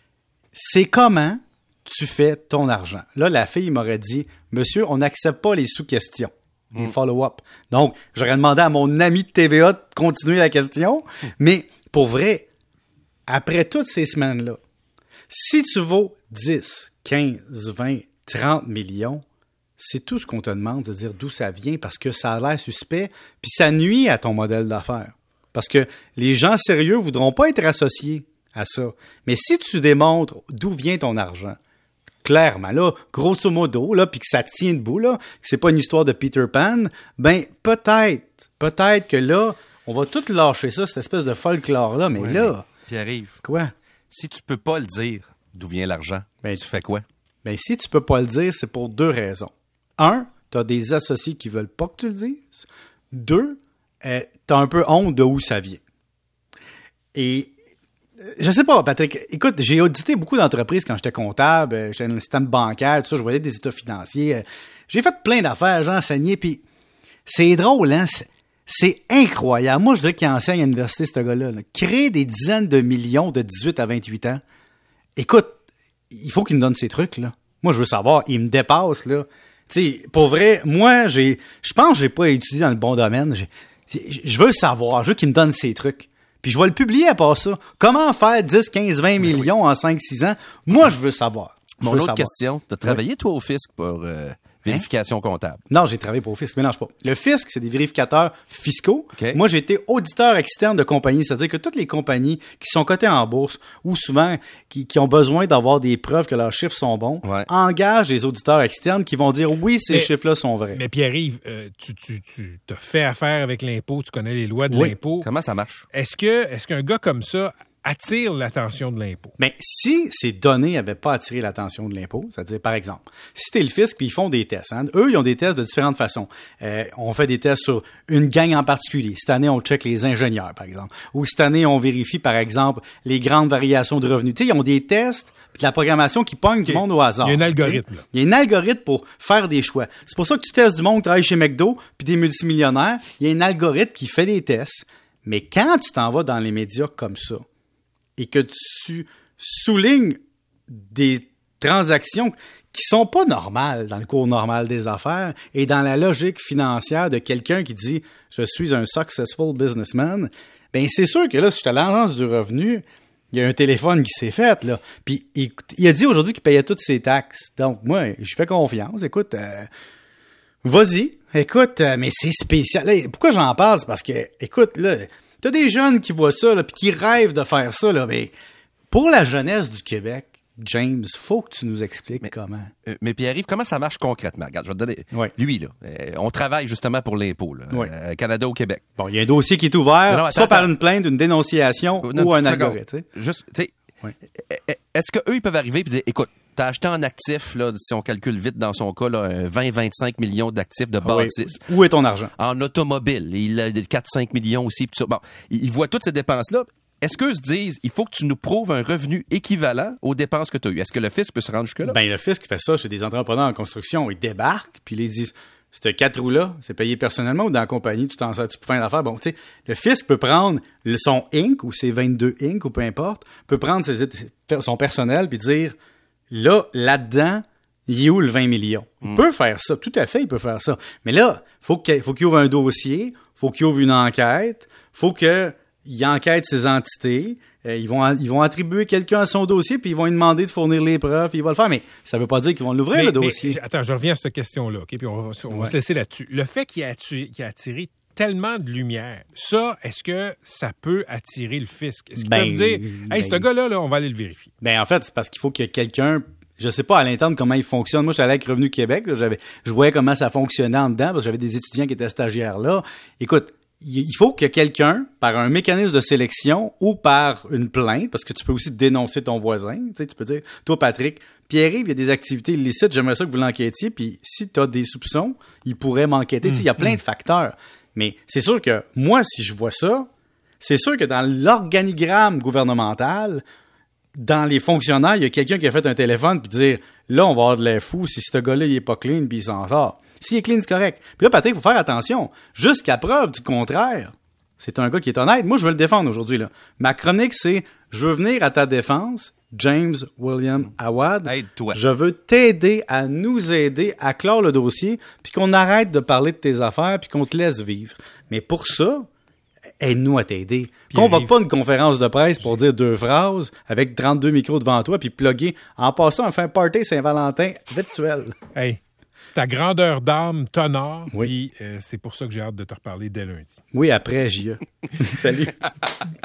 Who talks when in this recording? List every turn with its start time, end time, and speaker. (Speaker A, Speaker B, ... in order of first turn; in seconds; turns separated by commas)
Speaker A: 0.6-12.5, Speaker A: 13.3-14.6, Speaker A: 15.3-19.2, Speaker A: 19.8-31.6, Speaker A: 32.2-42.7, Speaker B: 42.2-43.4, Speaker A: 43.4-43.7, Speaker B: 44.1-47.0, Speaker A: 47.5-55.8, Speaker A: 57.1-57.5, Speaker A: 58.3-66.6, Speaker A: 67.3-74.4, Speaker A: 75.2-75.6, Speaker A: 76.1-92.3, Speaker B: 91.8-95.6, Speaker A: 95.7-110.8, Speaker C: 110.7-115.3, Speaker A: 114.7-115.0, Speaker B: 115.2-115.8, Speaker C: 115.9-119.3, Speaker A: 119.4-147.4, Speaker C: 136.7-138.0, Speaker A: 148.2-169.7, Speaker A: 170.6-178.3, Speaker A: 178.9-182.7, Speaker B: 182.9-188.8, Speaker A: 189.0-193.1, Speaker B: 190.1-190.7, Speaker B: 192.0-193.7, Speaker B: 194.4-201.7, Speaker A: 201.0-202.3, Speaker B: 202.4-212.0, Speaker A: 211.8-225.8, Speaker A: 226.3-243.6, Speaker C: 242.9-254.5, Speaker A: 245.5-245.8, Speaker A: 252.2-253.4, Speaker A: 254.6-280.1, Speaker C: 276.4-277.0, Speaker A: 280.6-283.4, Speaker A: 284.1-309.1, Speaker B: 301.2-301.8, Speaker A: 309.8-318.4, Speaker C: 310.9-311.3, Speaker C: 318.5-318.8, Speaker C: 319.4-323.5, Speaker A: 323.7-325.5